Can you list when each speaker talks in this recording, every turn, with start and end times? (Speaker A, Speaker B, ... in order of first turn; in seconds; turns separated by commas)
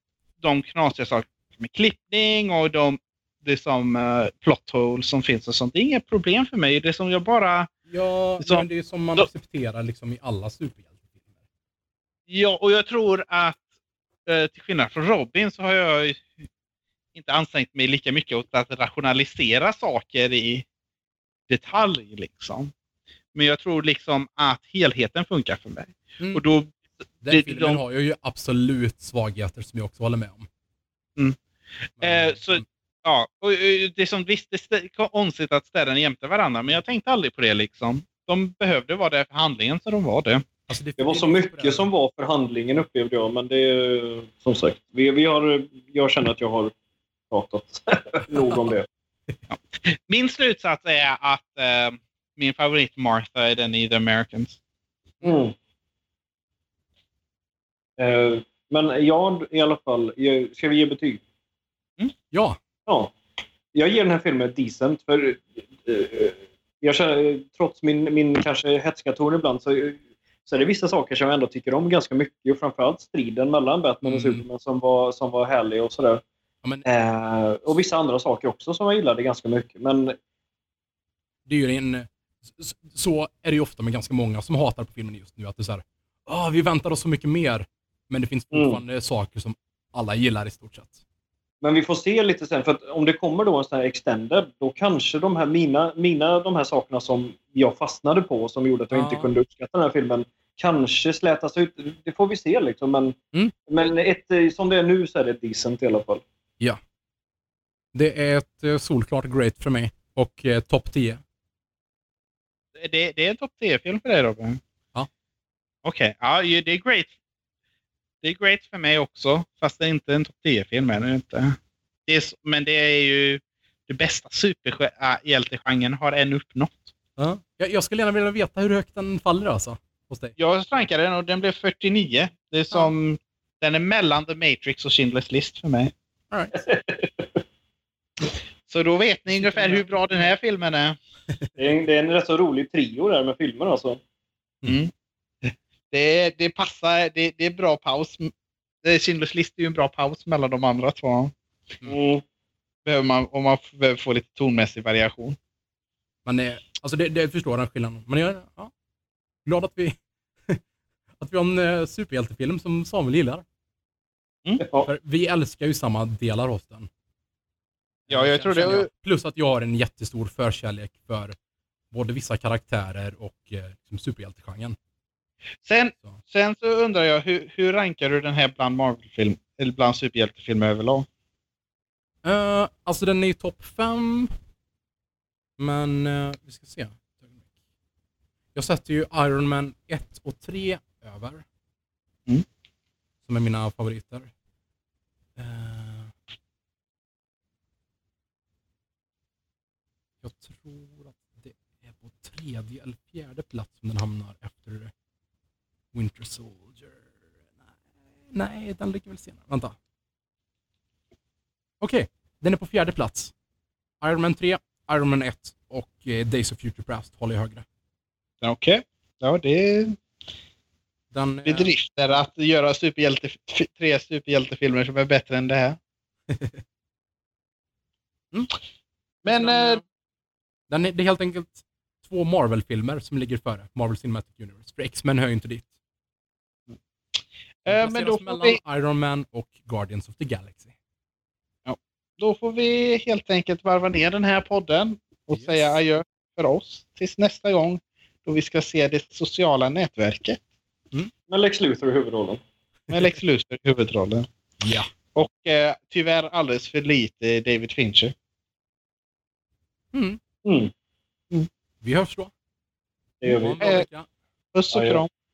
Speaker A: 0.4-7.7, Speaker B: 7.9-11.2, Speaker A: 8.4-9.3, Speaker A: 12.3-13.6, Speaker A: 14.3-16.3, Speaker A: 17.1-20.6, Speaker A: 21.5-22.7, Speaker A: 23.3-26.7, Speaker B: 26.2-26.4, Speaker B: 27.2-30.5, Speaker A: 27.3-27.8, Speaker A: 32.0-40.5, Speaker B: 32.0-32.6, Speaker B: 40.7-41.9, Speaker C: 41.0-46.7, Speaker C: 47.3-48.9, Speaker B: 48.4-48.6, Speaker A: 49.5-54.6, Speaker C: 55.2-55.5, Speaker C: 58.0-61.2, Speaker B: 62.3-62.6, Speaker C: 62.9-63.1, Speaker C: 63.7-76.2, Speaker B: 74.0-74.4, Speaker C: 76.8-80.2, Speaker B: 81.5-91.0, Speaker C: 88.5-88.8, Speaker C: 91.6-103.2, Speaker B: 98.9-99.3, Speaker C: 103.7-106.2, Speaker B: 107.9-111.2, Speaker A: 112.8-114.6, Speaker A: 115.8-117.1, Speaker A: 118.2-126.9, Speaker B: 127.2-130.3, Speaker A: 130.4-135.9, Speaker C: 136.6-137.4, Speaker A: 138.7-141.0, Speaker B: 139.3-139.8, Speaker C: 141.6-144.0, Speaker A: 144.7-144.9, Speaker A: 145.9-148.3, Speaker A: 148.8-151.3, Speaker C: 151.8-152.2, Speaker A: 152.8-155.4, Speaker B: 156.2-158.7, Speaker B: 159.4-160.6, Speaker B: 161.2-163.4, Speaker C: 164.6-164.9, Speaker B: 164.8-166.9, Speaker B: 168.1-171.4, Speaker A: 168.1-168.9, Speaker B: 171.9-174.8, Speaker A: 175.6-181.1, Speaker B: 182.2-184.3, Speaker B: 185.6-187.4, Speaker B: 188.6-191.4, Speaker B: 193.2-194.3, Speaker B: 195.4-196.1, Speaker B: 200.2-204.9, Speaker B: 205.9-207.1, Speaker B: 208.3-209.8, Speaker B: 211.8-213.3, Speaker B: 214.0-217.7, Speaker A: 218.4-220.0, Speaker B: 221.1-221.7, Speaker A: 221.4-225.8, Speaker B: 226.3-226.6, Speaker A: 229.2-229.8, Speaker B: 229.3-229.8, Speaker B: 230.7-235.7, Speaker A: 237.6-238.6, Speaker B: 237.7-240.7, Speaker A: 241.7-250.4, Speaker B: 245.3-245.8, Speaker C: 251.3-252.4, Speaker A: 252.9-254.3, Speaker B: 254.6-254.9, Speaker A: 255.1-258.1, Speaker B: 259.9-260.2, Speaker C: 260.4-260.7, Speaker B: 261.8-262.3, Speaker C: 263.2-263.6, Speaker B: 263.2-264.1, Speaker A: 263.6-263.9, Speaker A: 264.5-265.1, Speaker C: 264.7-265.0